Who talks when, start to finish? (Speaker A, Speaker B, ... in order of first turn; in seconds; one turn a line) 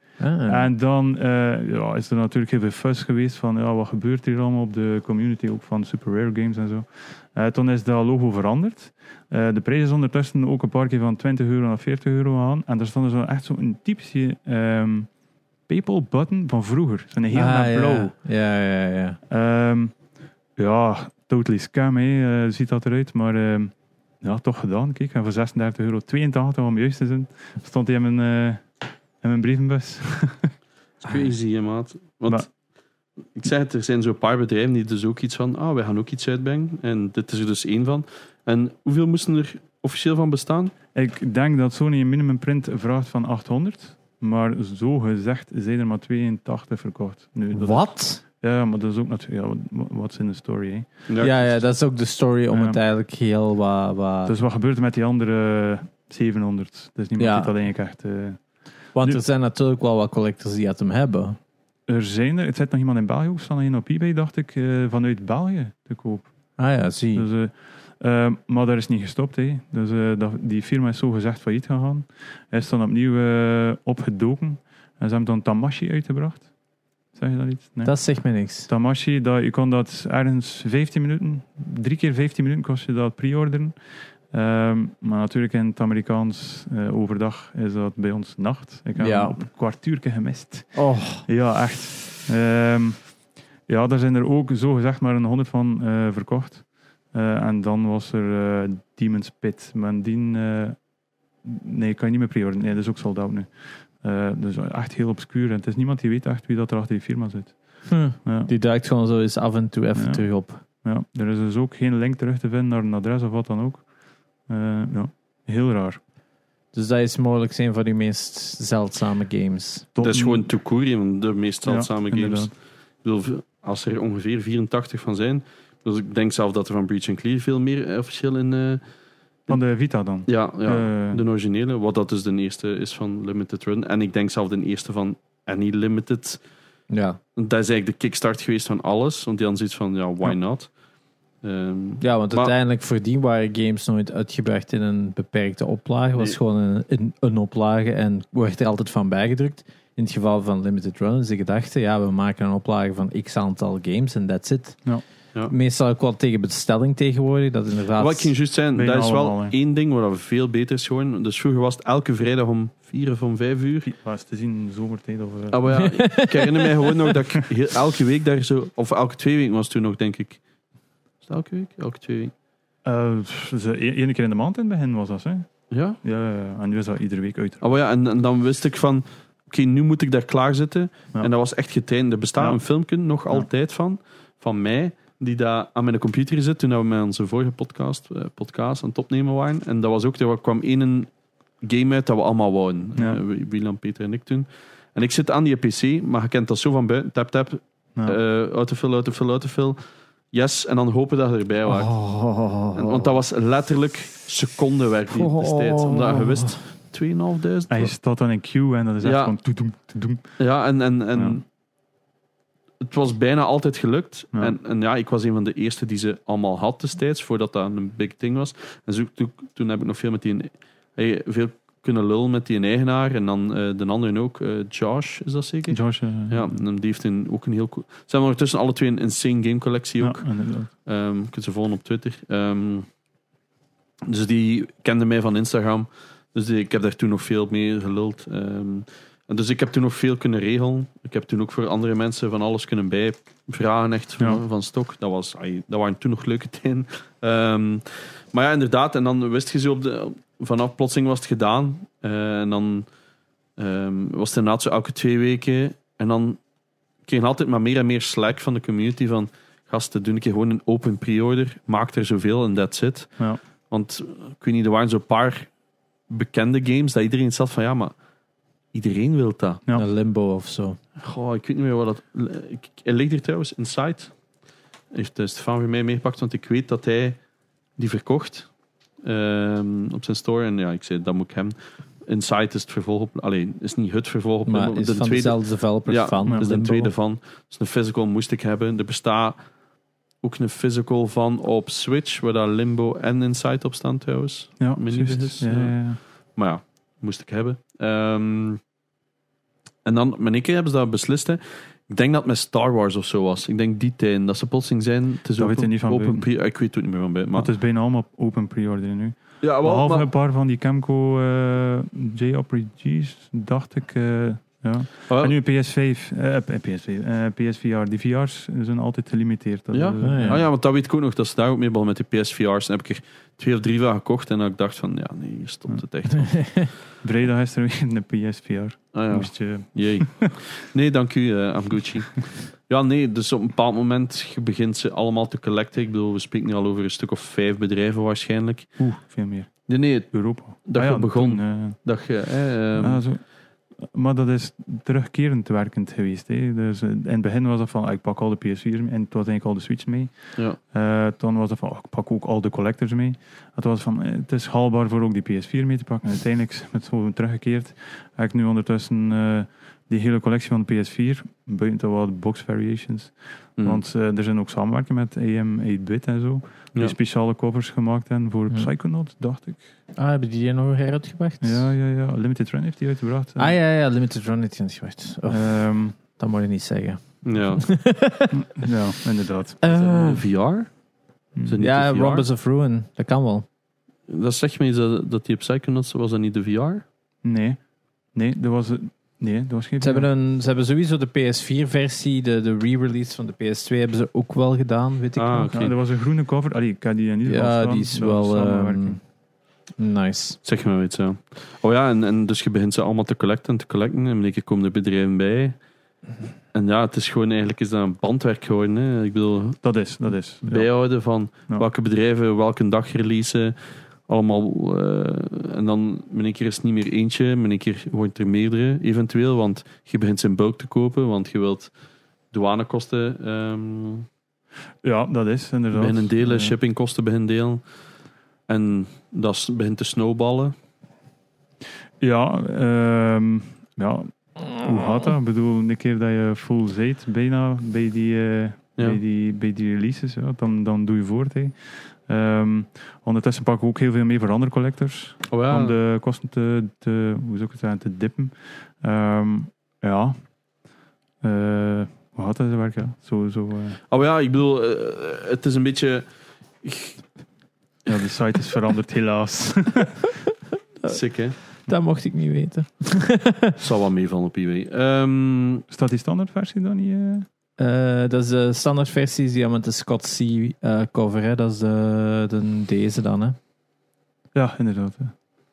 Speaker A: 0.2-0.7
Speaker B: 0.4-15.1
Speaker B: 15.7-18.1
Speaker A: 17.3-19.2
Speaker B: 19.3-19.9
Speaker B: 20.6-28.6
Speaker B: 29.2-30.5
Speaker C: 31.0-32.5
Speaker C: 33.2-40.7
Speaker B: 40.9-51.0
Speaker A: 47.5-48.2
Speaker C: 51.1-51.6
Speaker A: 51.2-54.3
Speaker B: 52.5-52.8
Speaker B: 54.2-59.2
Speaker A: 57.2-57.5
Speaker A: 58.9-61.4
Speaker B: 61.9-66.5
Speaker A: 66.6-67.3
Speaker B: 67.1-76.5
Speaker B: 77.1-93.1
Speaker A: 77.8-78.7
Speaker A: 89.0-89.4
Speaker A: 90.7-91.3
Speaker B: 93.7-100.8
Speaker B: 101.4-108.5
Speaker A: 107.9-110.6
Speaker B: 110.0-110.3
Speaker B: 110.8-113.9
Speaker B: 114.5-116.0
Speaker A: 116.7-119.9
Speaker B: 119.9-120.5
Speaker C: 120.0-128.8
Speaker B: 121.7-122.5
Speaker B: 129.5-131.2
Speaker C: 130.2-136.4
Speaker A: 136.9-137.2
Speaker C: 137.3-140.7
Speaker C: 141.4-142.5
Speaker A: 142.0-154.8
Speaker A: 155.5-158.3
Speaker C: 158.0-163.9
Speaker B: 158.7-159.5
Speaker B: 163.8-165.9
Speaker C: 165.5-170.4
Speaker A: 165.8-166.9
Speaker C: 171.2-172.3
Speaker B: 172.8-177.6
Speaker C: 175.7-176.0
Speaker C: 177.6-191.1
Speaker B: 182.4-183.5
Speaker C: 191.6-202.0
Speaker B: 192.9-193.2
Speaker A: 201.7-203.1
Speaker C: 202.7-207.9
Speaker A: 205.1-206.6
Speaker B: 207.7-210.4
Speaker C: 209.0-209.3
Speaker C: 210.4-211.4
Speaker C: 212.8-232.9
Speaker B: 225.7-226.6
Speaker B: 230.0-230.7
Speaker C: 234.0-252.9
Speaker C: 253.6-256.4
Speaker C: 257.0-265.5
Speaker C: 266.1-267.9
Speaker C: 268.7-269.6
Speaker A: 269.7-270.8
Speaker C: 271.0-274.1
Speaker C: 274.9-277.2
Speaker C: 277.8-278.5
Speaker C: 279.0-289.4
Speaker A: 284.5-286.9
Speaker C: 290.2-298.6
Speaker B: 294.6-296.0
Speaker C: 299.8-307.5
Speaker B: 305.4-306.3
Speaker B: 307.3-320.5
Speaker C: 309.4-310.1
Speaker C: 315.1-315.3
Speaker C: 319.7-326.4
Speaker A: 320.0-320.4
Speaker A: 326.2-326.7
Speaker B: 327.0-330.3
Speaker C: 328.9-338.7
Speaker B: 338.8-341.9
Speaker C: 339.7-343.0
Speaker B: 342.8-369.6
Speaker A: 369.9-371.7
Speaker B: 371.4-373.6
Speaker A: 373.4-378.3
Speaker B: 375.3-376.0
Speaker C: 377.2-377.7
Speaker B: 378.3-379.6
Speaker A: 379.6-380.2
Speaker C: 379.6-380.7
Speaker B: 381.3-381.6
Speaker C: 381.4-382.3
Speaker A: 381.6-383.4
Speaker C: 384.1-386.8
Speaker B: 387.2-387.6
Speaker B: 388.1-390.1
Speaker A: 389.8-395.5
Speaker C: 395.1-395.7
Speaker B: 395.5-399.0
Speaker A: 397.2-399.0
Speaker A: 399.8-400.4
Speaker C: 400.4-405.6
Speaker C: 406.5-409.6
Speaker B: 409.6-411.6
Speaker C: 410.4-421.7
Speaker C: 422.3-424.1
Speaker B: 424.8-426.6
Speaker C: 425.7-427.6
Speaker C: 428.5-430.6
Speaker B: 432.0-450.2
Speaker C: 445.3-445.8
Speaker B: 451.2-453.8
Speaker C: 453.9-456.1
Speaker C: 456.6-457.0
Speaker B: 457.9-460.1
Speaker A: 460.8-463.6
Speaker C: 460.8-461.4
Speaker C: 463.6-465.6
Speaker B: 465.7-467.2
Speaker A: 467.6-473.4
Speaker B: 474.3-475.1